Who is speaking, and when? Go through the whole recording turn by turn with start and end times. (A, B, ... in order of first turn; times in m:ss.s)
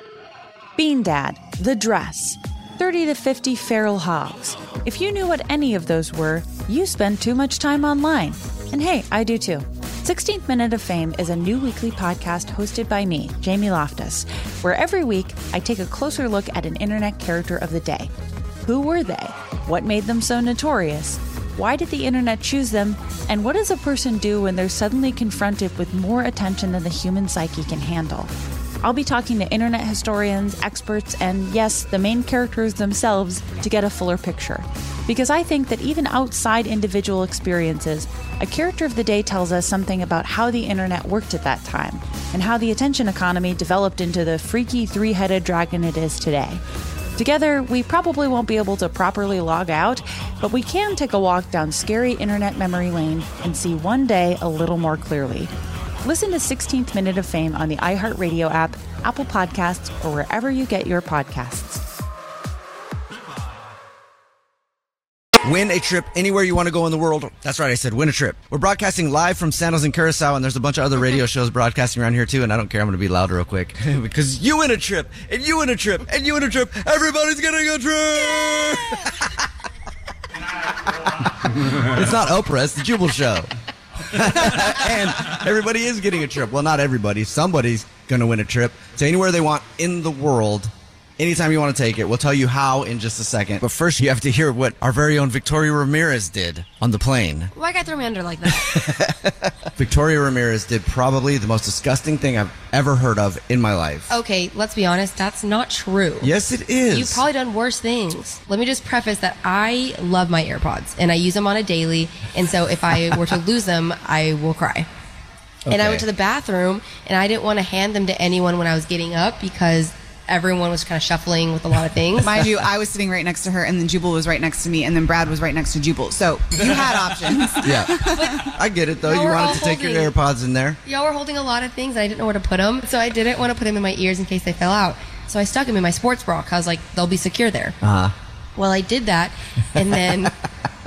0:00.8-0:18.1 A
0:18.6-0:46.6 A
0:47.2-1:01.8 A
1:05.4-1:19.4 B
1:20.7-1:23.5 B
1:24.1-1:37.5 B
1:37.5-1:38.9 C
1:38.5-1:44.2 B
1:44.1-1:46.3 C
1:46.2-1:47.2 B
1:46.9-1:54.9 C
1:55.7-1:56.1 B
1:55.7-2:02.4 C
2:02.2-2:08.4 D
2:07.6-2:10.8 B
2:08.1-2:08.5 C
2:09.0-2:10.1 C
2:10.8-2:17.8 C
2:17.8-2:18.1 B
2:18.6-2:20.3 C